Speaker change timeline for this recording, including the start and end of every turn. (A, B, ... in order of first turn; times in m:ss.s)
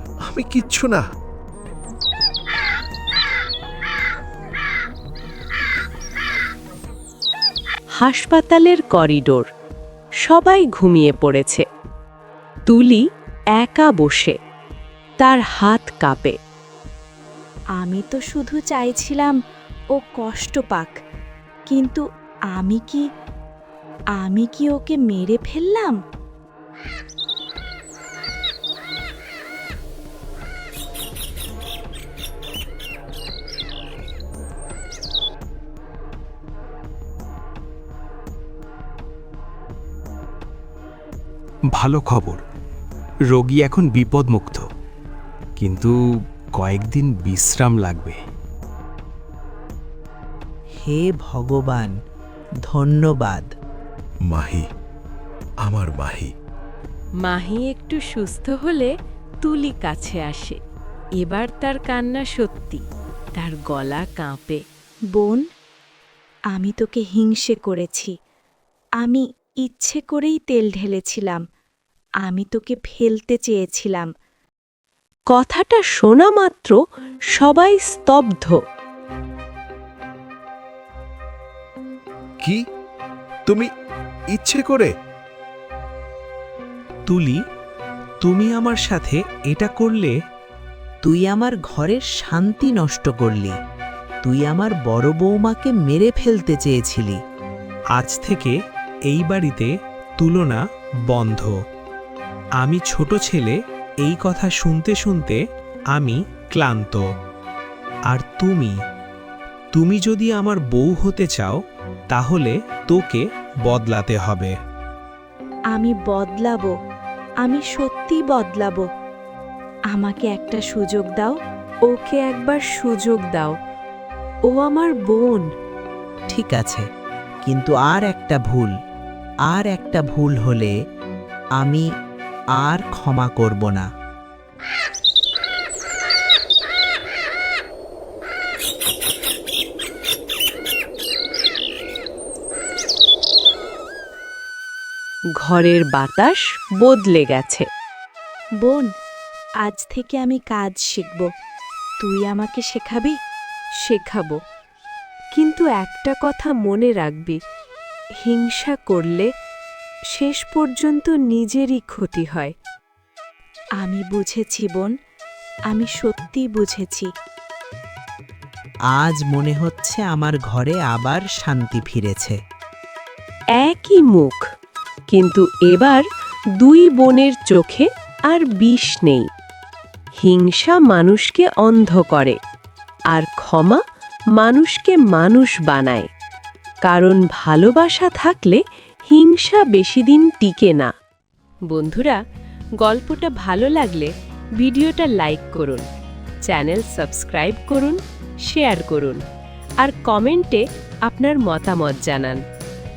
0:00.3-0:01.0 A
0:08.0-0:09.5 B
0:10.2-0:11.6 B
0:12.7-0:13.0 B
0:13.6-0:14.4 B
0:15.2-0:16.4 B
0:17.8-0:19.4 C
0:19.9-0:20.9 C
0:21.7-0:23.1 C
0:24.2-0:26.0 C
0:41.8-0:42.4 D
0:43.3-0:44.6 D
0:45.6-0:46.0 D
0:46.6-0:48.2 D
0:50.8-0:51.9 E
0:52.7-0:53.5 E
0:54.3-0:54.7 A
0:55.6-0:56.3 A
0:57.2-0:58.9 B
0:59.4-1:00.6 B
1:01.2-1:02.8 B
1:03.4-1:04.6 B
1:05.1-1:05.4 C
1:06.5-1:08.1 C
1:09.0-1:11.4 C
1:12.2-1:14.1 C
1:15.3-1:16.8 B
1:17.4-1:18.6 B
1:24.3-1:24.9 A
1:27.1-1:27.4 F
1:28.2-1:30.1 F
1:31.0-1:33.6 E
1:34.2-1:37.2 E
1:38.0-1:38.6 F
1:39.1-1:41.6 F
1:42.6-1:45.4 F
1:45.9-1:47.1 F
1:48.1-1:48.8 F
1:49.7-1:51.6 F
1:52.1-1:54.5 F
1:55.7-1:56.7 C
1:57.4-1:58.8 C
1:59.9-2:01.4 C
2:01.9-2:03.6 B
2:04.5-2:05.5 B
2:06.3-2:06.8 E
2:07.4-2:08.7 E
2:09.5-2:10.7 E
2:11.6-2:11.9 E
2:12.6-2:13.9 E
2:25.4-2:27.7 B
2:28.6-2:28.9 C
2:29.6-2:31.3 C
2:32.0-2:33.2 C
2:33.8-2:34.4 B
2:35.4-2:37.4 B
2:38.2-2:39.3 B
2:40.1-2:42.5 B
2:43.8-2:44.9 C
2:45.7-2:47.1 C
2:48.9-2:52.4 E
2:53.6-2:54.4 B
2:55.1-2:56.0 B
2:56.6-2:59.2 B
3:00.2-3:02.4 B
3:03.1-3:03.8 B
3:04.4-3:06.1 B
3:06.9-3:10.9 B
3:11.7-3:12.2 B
3:12.8-3:15.9 B
3:16.5-3:19.2 B
3:19.8-3:22.4 B